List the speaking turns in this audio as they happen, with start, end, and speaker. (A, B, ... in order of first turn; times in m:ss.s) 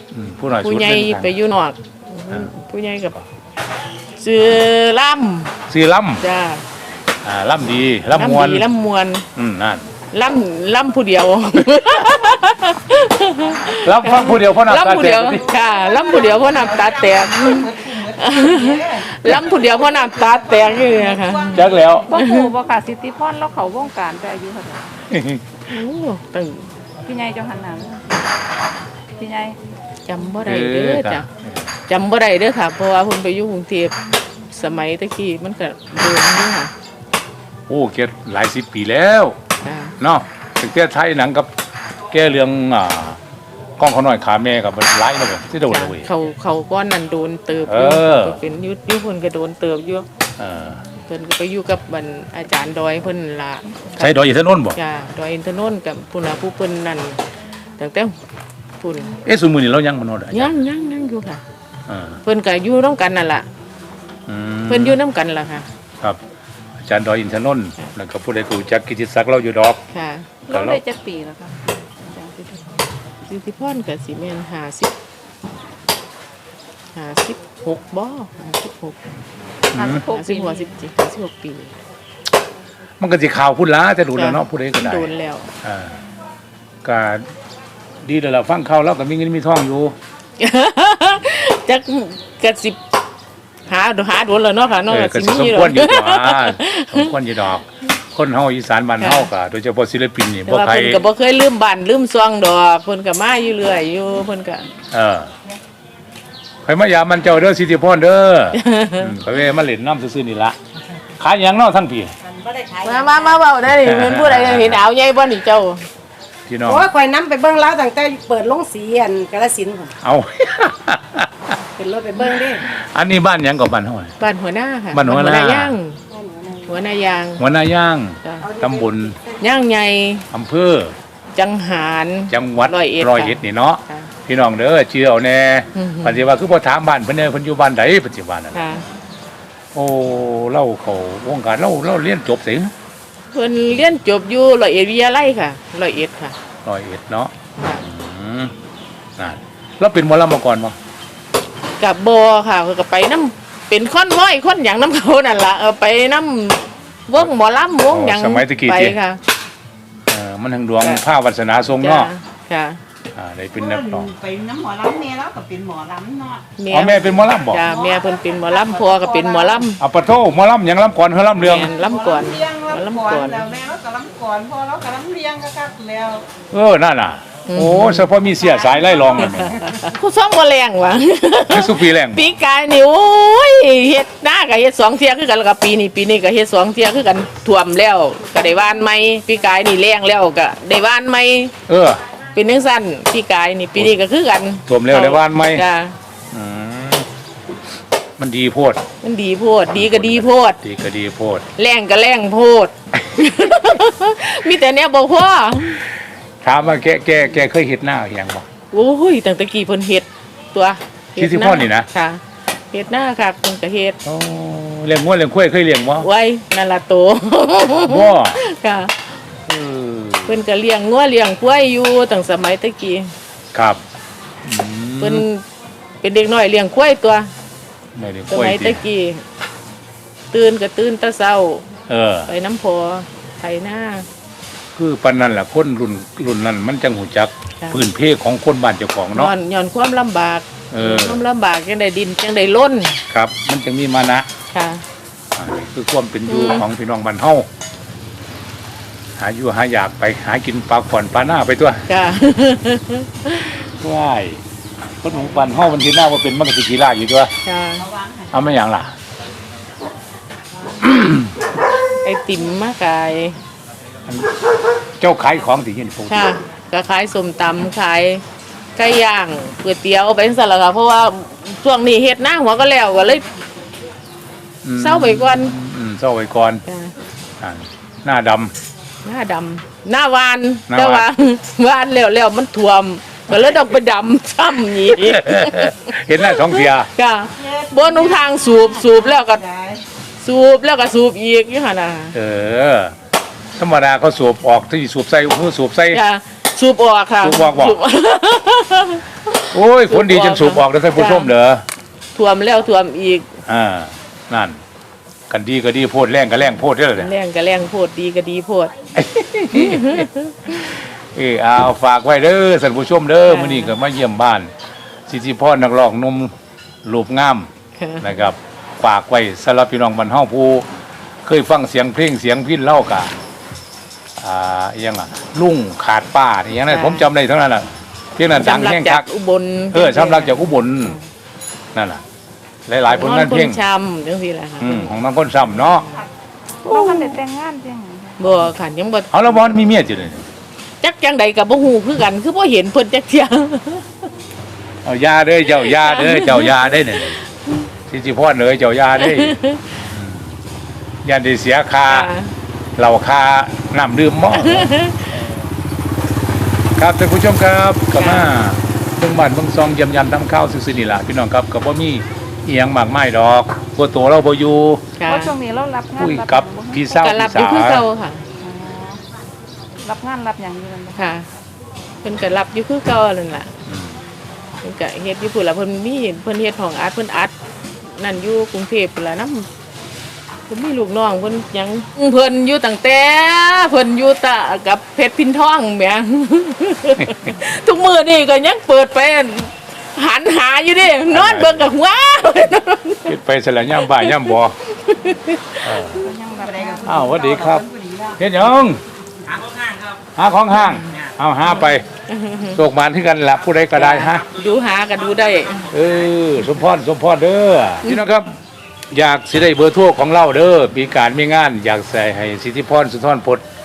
0:00.1-0:01.3 A
0:00.6-0:03.2 B
0:04.2-0:05.5 B
0:05.7-0:06.2 A
0:06.2-0:06.6 B
0:07.2-0:08.6 A
0:08.1-0:09.2 B
0:09.4-0:09.8 A
0:10.1-0:22.5 B
0:13.7-0:15.4 A
0:15.4-0:21.8 C
0:21.5-0:22.1 A
0:22.1-0:24.8 D
0:25.1-0:25.4 A
0:25.7-0:26.7 B
0:27.0-0:28.4 D
0:29.2-0:29.6 D
0:30.0-0:31.3 B
0:30.4-0:31.6 A
0:31.9-0:33.9 B
0:34.5-0:36.7 B
0:37.7-0:39.4 A
0:39.6-0:39.9 B
0:40.0-0:41.5 A
0:42.1-0:43.2 A
0:43.8-0:46.1 A
0:45.7-0:50.0 B
0:47.7-0:48.4 A
0:50.4-0:50.8 A
0:51.1-0:54.2 B
0:54.0-0:54.8 A
0:54.7-0:57.2 B
0:57.8-0:58.1 B
0:58.8-0:59.2 B
0:59.2-1:00.5 A
1:00.3-1:01.4 B
1:01.9-1:02.2 A
1:02.2-1:03.4 B
1:04.3-1:05.0 A
1:04.7-1:05.7 B
1:06.8-1:09.8 A
1:09.9-1:10.3 B
1:10.4-1:12.8 D
1:10.5-1:10.8 A
1:13.3-1:14.9 B
1:16.9-1:19.0 B
1:19.7-1:20.0 A
1:19.7-1:20.7 D
1:19.8-1:21.7 B
1:23.0-1:25.1 A
1:24.1-1:25.5 B
1:25.6-1:26.0 A
1:26.8-1:27.3 A
1:28.0-1:30.0 A
1:30.4-1:32.8 B
1:33.7-1:37.1 B
1:34.9-1:41.0 A
1:39.0-1:39.3 B
1:40.4-1:44.7 B
1:44.9-1:45.3 A
1:46.6-1:50.6 A
1:48.6-1:49.1 B
1:51.2-1:52.1 A
1:52.3-1:52.8 E
1:52.8-1:55.8 B
1:53.8-1:54.8 A
1:56.5-1:56.9 A
1:56.9-1:59.9 E
2:00.0-2:01.5 A
2:01.8-2:02.6 E
2:02.2-2:02.6 B
2:02.6-2:04.1 A
2:04.2-2:06.0 B
2:04.9-2:05.7 A
2:06.1-2:06.6 E
2:06.6-2:07.4 B
2:07.4-2:09.2 A
2:08.2-2:08.6 B
2:09.4-2:10.2 B
2:10.3-2:10.9 A
2:11.3-2:14.1 B
2:12.3-2:18.6 A
2:15.8-2:16.2 B
2:18.5-2:18.8 B
2:19.7-2:22.7 A
2:23.3-2:26.4 B
2:26.6-2:28.5 A
2:27.6-2:27.8 B
2:29.2-2:30.8 A
2:31.8-2:39.2 B
2:37.9-2:39.0 A
2:40.1-2:42.1 A
2:41.8-2:42.8 B
2:43.1-2:44.1 A
2:43.6-2:46.5 C
2:46.6-2:49.8 B
2:46.7-2:47.6 A
2:47.6-2:49.6 C
2:49.8-2:51.7 A
2:51.4-2:53.4 B
2:51.7-2:56.2 C
2:56.5-2:59.5 A
2:57.5-2:58.1 B
2:58.6-2:59.7 C
2:59.2-3:11.5 B
3:01.5-3:02.2 A
3:11.7-3:12.0 A
3:12.3-3:15.9 B
3:14.7-3:15.6 A
3:16.3-3:17.1 A
3:18.2-3:18.8 A
3:19.0-3:20.6 B
3:19.7-3:21.4 A
3:21.6-3:25.8 B
3:26.4-3:28.4 A
3:28.7-3:34.0 B
3:31.2-3:31.9 A
3:34.0-3:36.1 A
3:36.0-3:38.9 B
3:37.8-3:38.4 A
3:39.5-3:40.4 A
3:40.3-3:43.1 B
3:43.5-3:43.8 A
3:44.4-3:45.2 A
3:45.0-3:45.4 B
3:46.0-3:47.3 B
3:48.0-3:48.8 A
3:48.3-3:49.2 B
3:50.3-3:51.6 B
3:51.9-3:52.3 A
3:52.2-3:54.0 B
3:54.7-3:59.3 A
3:59.1-4:03.0 B
4:00.7-4:01.2 A
4:03.1-4:04.3 A
4:04.5-4:04.8 B
4:05.3-4:07.5 A
4:06.3-4:06.7 B
4:09.2-4:11.8 A
4:11.9-4:13.6 B
4:13.8-4:14.4 A
4:15.0-4:17.3 A
4:17.4-4:17.8 B
4:17.8-4:18.5 C
4:18.3-4:18.9 A
4:20.8-4:21.3 A
4:22.0-4:23.4 B
4:25.0-4:26.3 A
4:26.1-4:28.2 B
4:28.8-4:33.3 B
4:34.6-4:36.6 A
4:34.8-4:35.5 B
4:36.6-4:36.9 B
4:37.4-4:38.5 A
4:39.0-4:49.4 B
4:40.7-4:41.0 A
4:44.9-4:46.9 A
4:47.3-4:49.8 C
4:50.2-4:52.1 B
4:52.1-4:52.9 A
4:53.5-4:56.0 A
4:55.9-4:59.0 B
4:57.2-4:57.8 A
4:59.5-5:01.6 A
4:59.8-5:01.3 B
5:02.1-5:03.3 B
5:03.4-5:04.6 A
5:05.3-5:07.1 A
5:06.9-5:08.7 B
5:08.9-5:14.5 A
5:09.5-5:10.6 B
5:13.2-5:13.8 B
5:15.1-5:16.3 A
5:16.8-5:17.5 A
5:17.8-5:18.3 B
5:18.0-5:20.7 A
5:21.2-5:23.1 A
5:24.2-5:29.0 A
5:26.7-5:27.1 B
5:28.3-5:31.0 B
5:29.7-5:31.0 A
5:31.7-5:32.0 A
5:32.7-5:33.6 A
5:32.9-5:36.0 B
5:34.6-5:35.8 A
5:36.6-5:37.2 B
5:36.6-5:38.4 D
5:38.2-5:39.7 B
5:39.1-5:40.2 A
5:40.8-5:43.9 B
5:44.8-5:47.2 A
5:45.5-5:47.7 B
5:47.9-5:49.3 A
5:49.0-5:49.6 B
5:49.9-5:50.4 A
5:51.0-5:52.1 A
5:51.9-5:52.3 B
5:52.8-5:55.4 A
5:54.3-5:55.1 B
5:56.8-6:04.8 A
5:58.0-5:58.3 B
6:05.0-6:05.4 B
6:05.0-6:07.0 D
6:06.0-6:07.8 A
6:06.9-6:08.2 B
6:08.4-6:09.0 D
6:09.8-6:11.2 D
6:11.0-6:11.2 B
6:12.0-6:13.5 B
6:13.6-6:14.0 A
6:14.6-6:19.5 B
6:20.5-6:33.2 B
6:31.1-6:31.7 A
6:33.0-6:34.5 A
6:33.8-6:36.0 B
6:35.6-6:36.1 A
6:36.0-6:36.9 D
6:36.3-6:38.3 C
6:36.8-6:37.6 A
6:38.2-6:38.8 A
6:40.1-6:41.8 A
6:40.6-6:40.8 B
6:42.1-6:42.6 B
6:42.5-6:44.2 A
6:43.7-6:45.7 B
6:45.7-6:48.3 A
6:48.9-6:53.4 A